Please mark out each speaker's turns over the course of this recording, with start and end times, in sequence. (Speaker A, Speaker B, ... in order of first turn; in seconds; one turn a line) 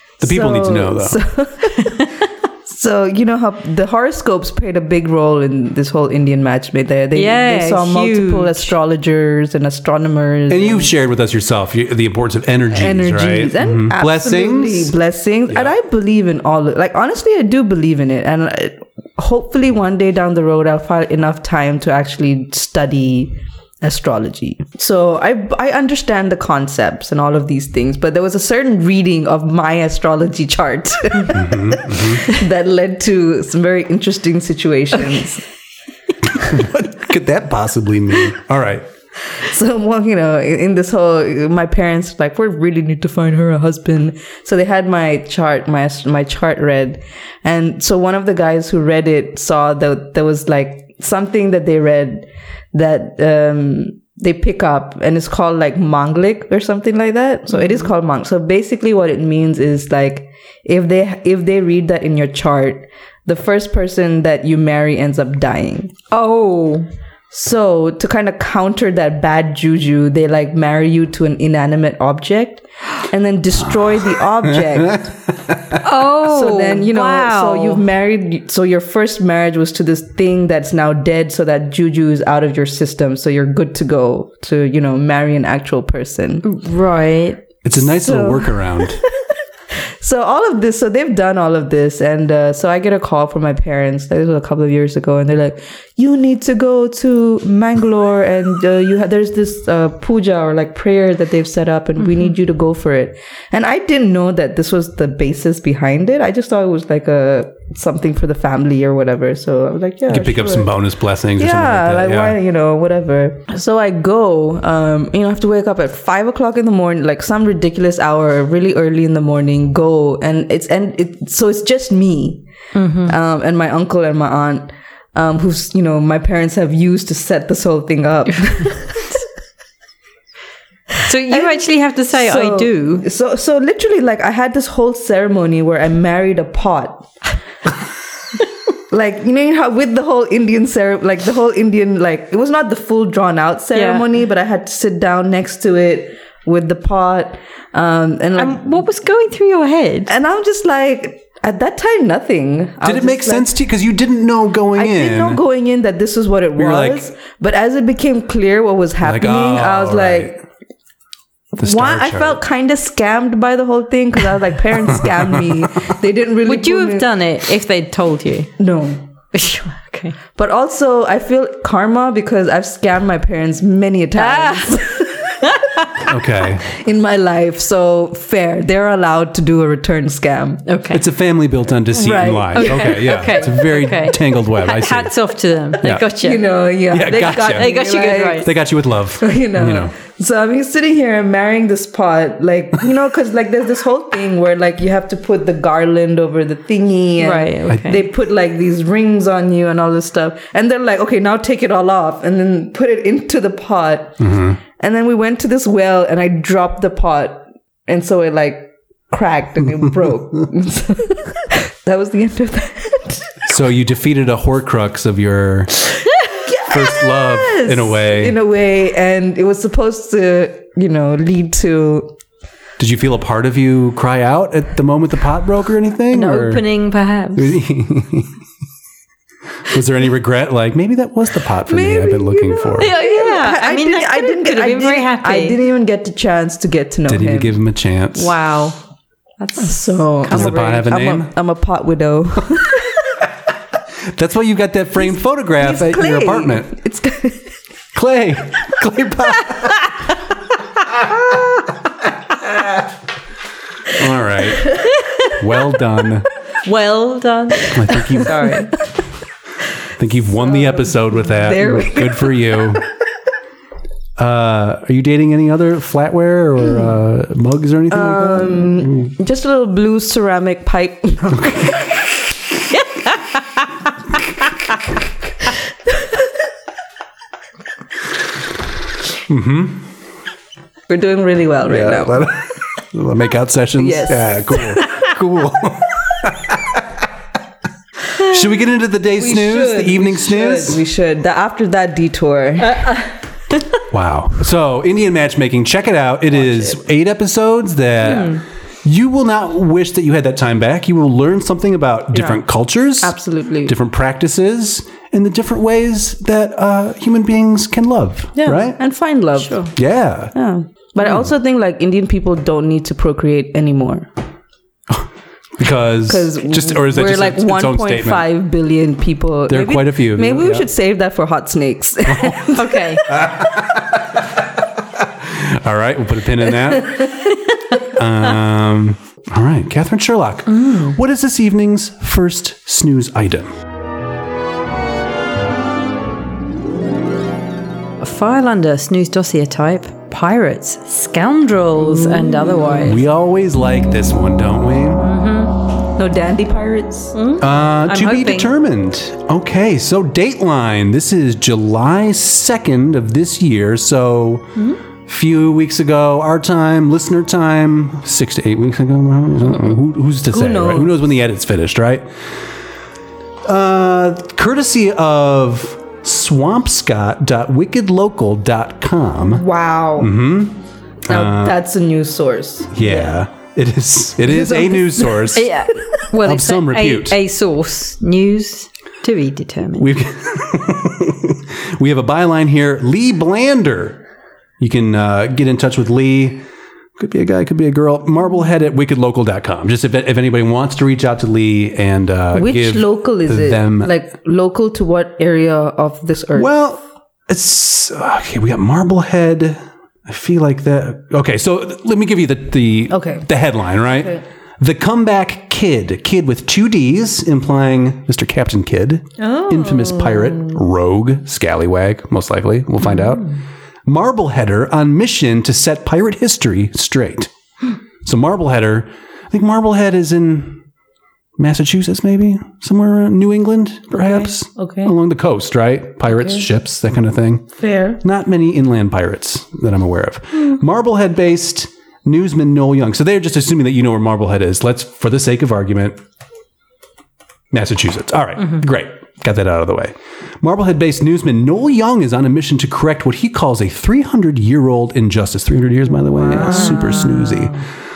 Speaker A: 0.2-1.2
Speaker B: 0.2-2.1
Speaker C: 1.8-2.1
Speaker B: 2.7-10.9
Speaker C: 7.1-8.7
Speaker A: 10.5-14.9
Speaker B: 12.7-35.5
Speaker A: 31.3-32.3
Speaker A: 36.3-38.9
Speaker B: 39.3-66.0
Speaker C: 66.1-66.9
Speaker B: 67.3-75.2
Speaker A: 73.7-74.2
Speaker A: 74.7-75.8
Speaker C: 75.8-77.8
Speaker B: 76.1-86.5
Speaker C: 86.4-87.4
Speaker A: 87.6-89.0
Speaker B: 87.7-89.1
Speaker B: 90.0-110.8
Speaker A: 110.1-112.4
Speaker B: 111.4-122.5
Speaker C: 122.7-123.2
Speaker B: 123.0-129.2
Speaker C: 131.1-133.1
Speaker B: 131.3-137.1
Speaker B: 138.9-148.8
Speaker C: 143.7-144.1
Speaker C: 148.4-150.1
Speaker B: 150.1-153.5
Speaker A: 152.8-155.4
Speaker B: 154.8-160.4
Speaker A: 156.6-157.1
Speaker A: 159.0-160.4
Speaker B: 161.5-167.1
Speaker A: 161.6-162.4
Speaker A: 164.9-165.7
Speaker C: 166.4-168.5
Speaker B: 168.6-169.0
Speaker C: 169.3-170.2
Speaker B: 170.3-175.4
Speaker C: 174.2-176.0
Speaker A: 176.0-176.7
Speaker B: 176.6-180.7
Speaker C: 180.7-181.0
Speaker A: 180.9-185.1
Speaker B: 181.9-183.3
Speaker C: 182.5-186.4
Speaker A: 185.8-186.1
Speaker B: 186.1-188.5
Speaker A: 186.9-187.7
Speaker C: 187.2-188.5
Speaker A: 188.4-189.9
Speaker B: 189.2-204.2
Speaker C: 197.2-198.0
Speaker A: 204.2-204.6
Speaker B: 204.8-213.4
Speaker A: 213.5-215.9
Speaker B: 216.3-222.1
Speaker A: 216.6-218.4
Speaker A: 222.8-226.6
Speaker C: 226.1-227.6
Speaker A: 227.3-228.3
Speaker A: 229.7-232.9
Speaker B: 231.7-237.6
Speaker C: 232.8-235.6
Speaker A: 237.1-238.4
Speaker C: 238.2-238.8
Speaker C: 239.4-240.6
Speaker B: 239.6-242.9
Speaker A: 240.3-241.3
Speaker A: 244.1-246.7
Speaker B: 245.0-247.5
Speaker A: 247.9-249.8
Speaker A: 253.9-256.3
Speaker C: 256.6-258.6
Speaker B: 257.6-258.8
Speaker A: 257.7-258.4
Speaker A: 260.0-262.9
Speaker B: 260.4-262.7
Speaker A: 264.2-269.1
Speaker B: 267.9-271.8
Speaker A: 271.4-271.6
Speaker A: 279.3-279.9
Speaker B: 280.9-282.4
Speaker A: 281.7-287.0
Speaker B: 283.8-284.8
Speaker A: 288.1-290.8
Speaker B: 289.2-293.0
Speaker C: 292.7-293.1
Speaker A: 293.9-308.8
Speaker B: 296.5-296.8
Speaker B: 303.0-303.8
Speaker B: 308.4-309.7
Speaker C: 309.4-309.7
Speaker A: 309.8-310.3
Speaker B: 310.3-314.1
Speaker A: 314.9-318.3
Speaker B: 316.1-323.0
Speaker A: 319.5-320.7
Speaker C: 322.5-323.1
Speaker A: 323.1-324.2
Speaker A: 324.9-333.5
Speaker C: 338.0-343.0
Speaker A: 342.8-345.1
Speaker C: 345.0-345.5
Speaker B: 346.0-347.2
Speaker C: 347.1-348.5
Speaker A: 347.4-362.3
Speaker B: 360.3-360.9
Speaker A: 363.4-369.5
Speaker B: 369.2-370.1
Speaker A: 370.0-371.6
Speaker B: 371.1-373.2
Speaker A: 372.7-375.6
Speaker B: 374.2-375.4
Speaker C: 375.3-379.9
Speaker A: 376.2-377.2
Speaker A: 379.8-384.0
Speaker A: 384.6-386.4
Speaker A: 387.0-393.9
Speaker B: 392.3-396.5
Speaker A: 396.4-413.3
Speaker B: 402.9-403.3
Speaker B: 409.2-410.6
Speaker A: 413.9-417.3
Speaker A: 418.0-420.6
Speaker A: 421.4-436.0
Speaker B: 424.6-424.9
Speaker B: 427.6-428.0
Speaker A: 437.5-447.6
Speaker B: 446.3-447.2